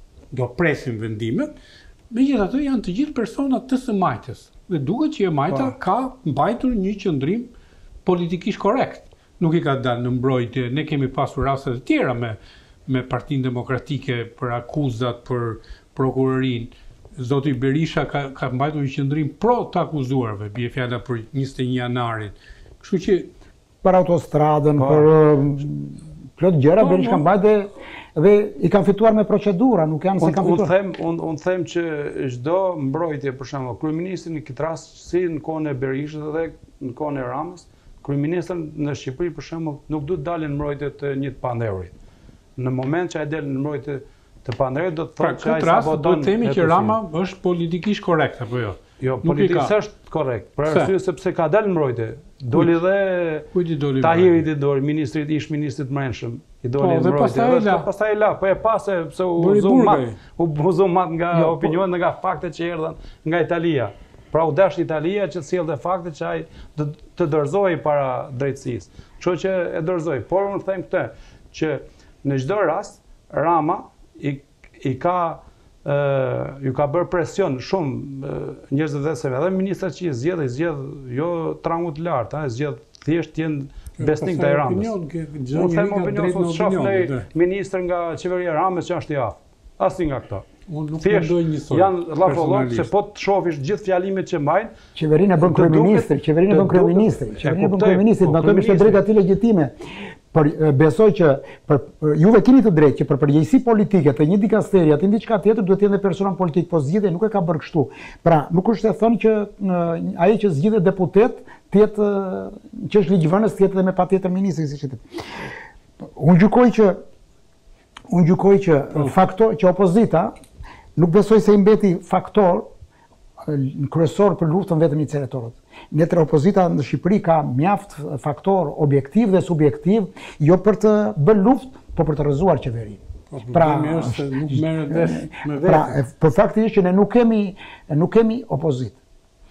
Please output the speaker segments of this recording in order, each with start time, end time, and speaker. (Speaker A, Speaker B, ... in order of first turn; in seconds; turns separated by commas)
Speaker A: 0.3-1.5, Speaker A: 2.1-7.5, Speaker A: 8.0-23.3, Speaker B: 23.8-30.7, Speaker C: 24.8-25.1, Speaker A: 26.8-27.2, Speaker C: 30.2-41.9, Speaker C: 42.6-47.0, Speaker A: 45.2-49.7, Speaker C: 49.0-53.5, Speaker A: 50.6-50.9, Speaker A: 53.5-54.4, Speaker C: 54.0-84.9, Speaker A: 56.8-57.9, Speaker A: 59.4-60.2, Speaker A: 61.3-61.8, Speaker A: 84.0-87.2, Speaker C: 85.5-90.5, Speaker A: 90.7-92.9, Speaker C: 91.0-94.7, Speaker B: 94.9-99.7, Speaker C: 95.4-99.0, Speaker B: 100.3-115.0, Speaker B: 116.2-117.0, Speaker B: 118.1-120.3, Speaker B: 121.0-122.7, Speaker B: 123.4-139.0, Speaker A: 133.3-135.9